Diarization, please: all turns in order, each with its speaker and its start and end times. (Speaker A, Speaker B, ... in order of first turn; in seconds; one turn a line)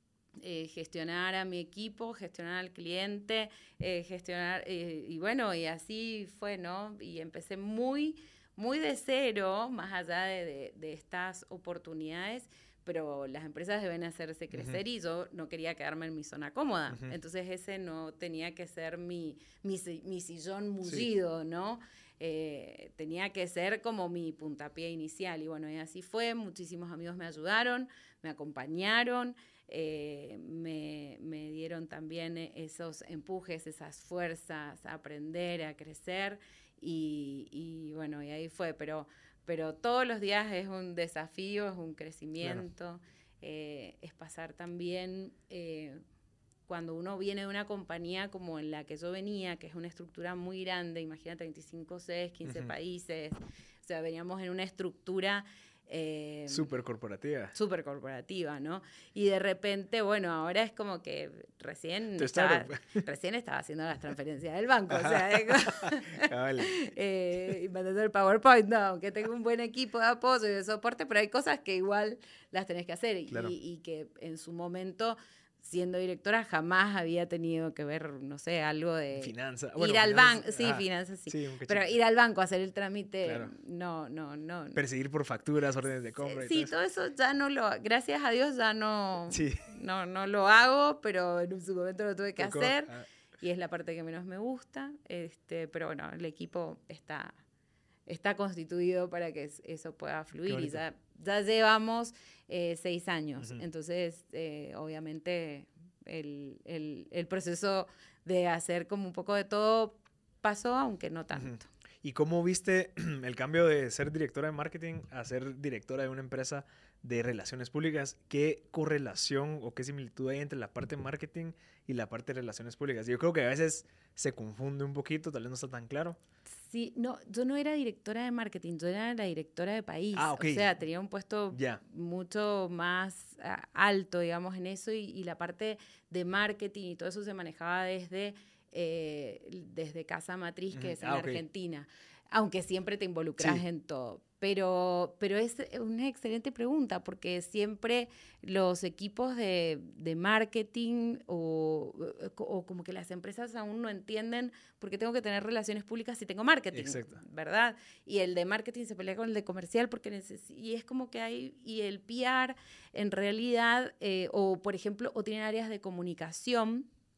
Speaker A: 0.4-46.0
Speaker B: 14.5-14.8
Speaker B: 16.9-17.2
Speaker B: 20.8-21.1
Speaker A: 46.7-56.7
Speaker B: 52.5-52.7
Speaker B: 56.5-57.5
Speaker A: 57.5-84.8
Speaker B: 62.2-63.0
Speaker B: 64.9-66.7
Speaker B: 79.2-81.9
Speaker B: 83.2-83.5
Speaker B: 84.8-86.7
Speaker A: 86.2-97.4
Speaker B: 89.3-89.6
Speaker B: 92.4-93.1
Speaker A: 98.1-111.7
Speaker B: 100.5-100.8
Speaker B: 111.3-126.2
Speaker A: 126.5-166.9
Speaker B: 130.1-130.7
Speaker B: 131.5-131.8
Speaker B: 140.7-141.4
Speaker B: 143.4-143.6
Speaker B: 156.7-157.2